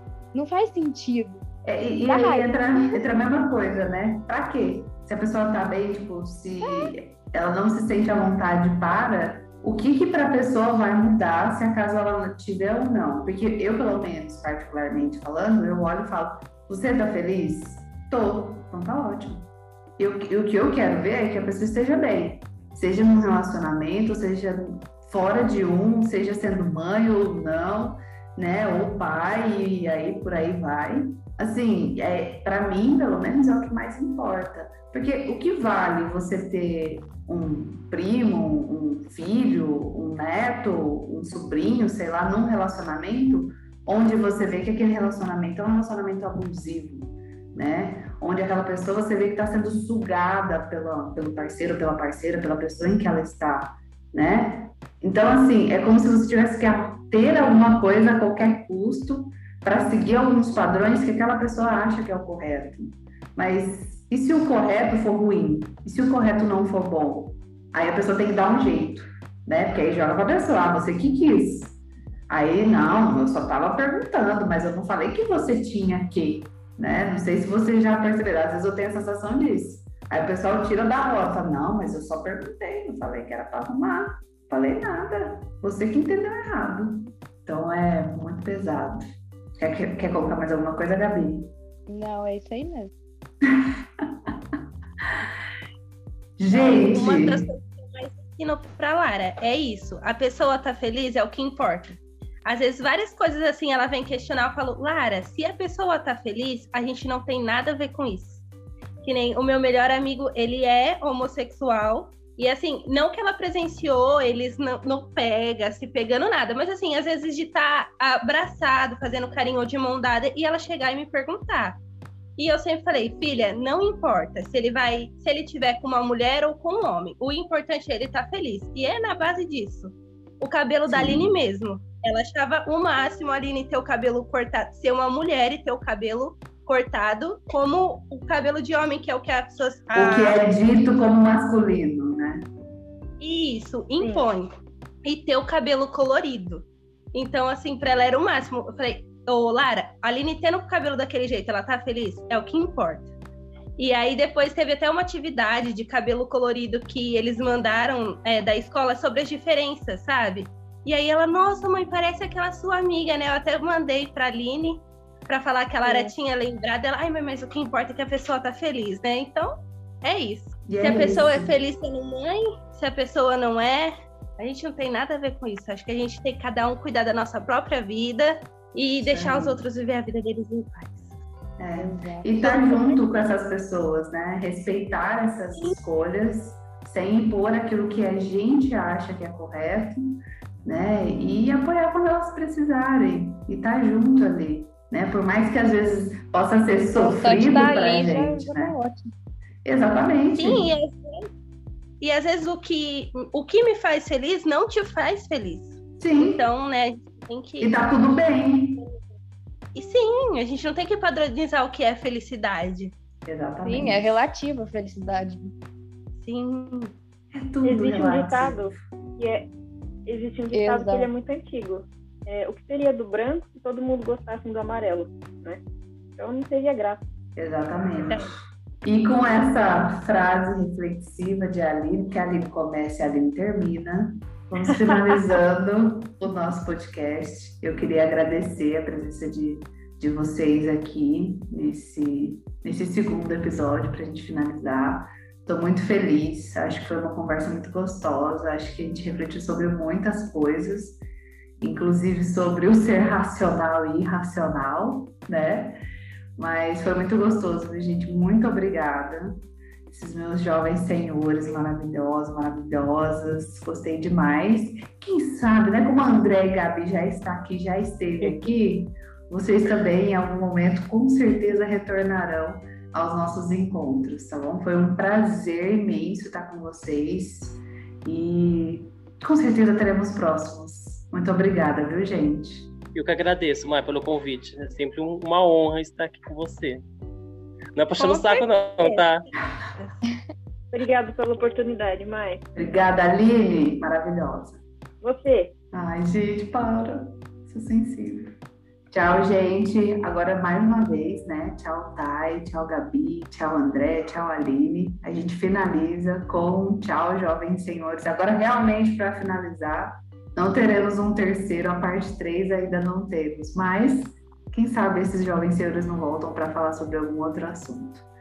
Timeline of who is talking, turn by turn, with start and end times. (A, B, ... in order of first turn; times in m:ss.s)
0:00.3-0:01.4 A
0:01.6-0:19.5 B
0:02.0-0:03.0 A
0:06.6-0:06.9 A
0:20.0-1:11.8 B
1:12.3-1:29.1 B
1:29.6-1:31.5 B
1:31.9-1:32.9 A
1:33.4-1:34.3 B
1:36.4-1:37.4 B
1:36.5-1:48.4 C
1:49.0-2:01.8 C
2:02.4-2:20.4 C
2:10.9-2:11.3 B
2:19.9-2:22.4 B
2:23.2-2:24.5 C
2:24.0-2:24.3 D
2:25.0-2:33.2 C
2:33.8-3:01.2 C
2:45.8-2:46.1 D
2:50.7-2:51.5 B
2:59.0-2:59.6 B
3:01.6-3:18.8 B
3:01.8-3:02.7 A
3:02.4-3:03.2 C
3:17.0-3:19.1 A
3:19.6-3:20.7 B
3:20.3-3:21.3 C
3:22.0-3:27.8 C
3:26.0-3:26.4 B
3:27.6-3:28.8 B
3:29.7-3:33.0 C
3:33.3-3:34.3 B
3:33.6-3:35.5 A
3:36.2-3:37.0 C
3:37.3-3:38.8 B
3:37.6-3:39.5 D
3:40.1-3:45.6 D
3:40.5-3:41.1 A
3:46.2-3:47.0 D
3:47.4-4:11.0 B
4:11.6-4:15.8 B
4:16.4-4:42.7 B
4:28.2-4:28.5 E
4:42.9-4:46.8 E
4:47.8-4:49.2 E
4:48.0-4:50.0 C
4:50.7-4:52.4 D
4:52.6-4:54.6 B
4:55.0-4:55.5 D
4:55.7-4:58.3 B
4:58.9-5:18.1 B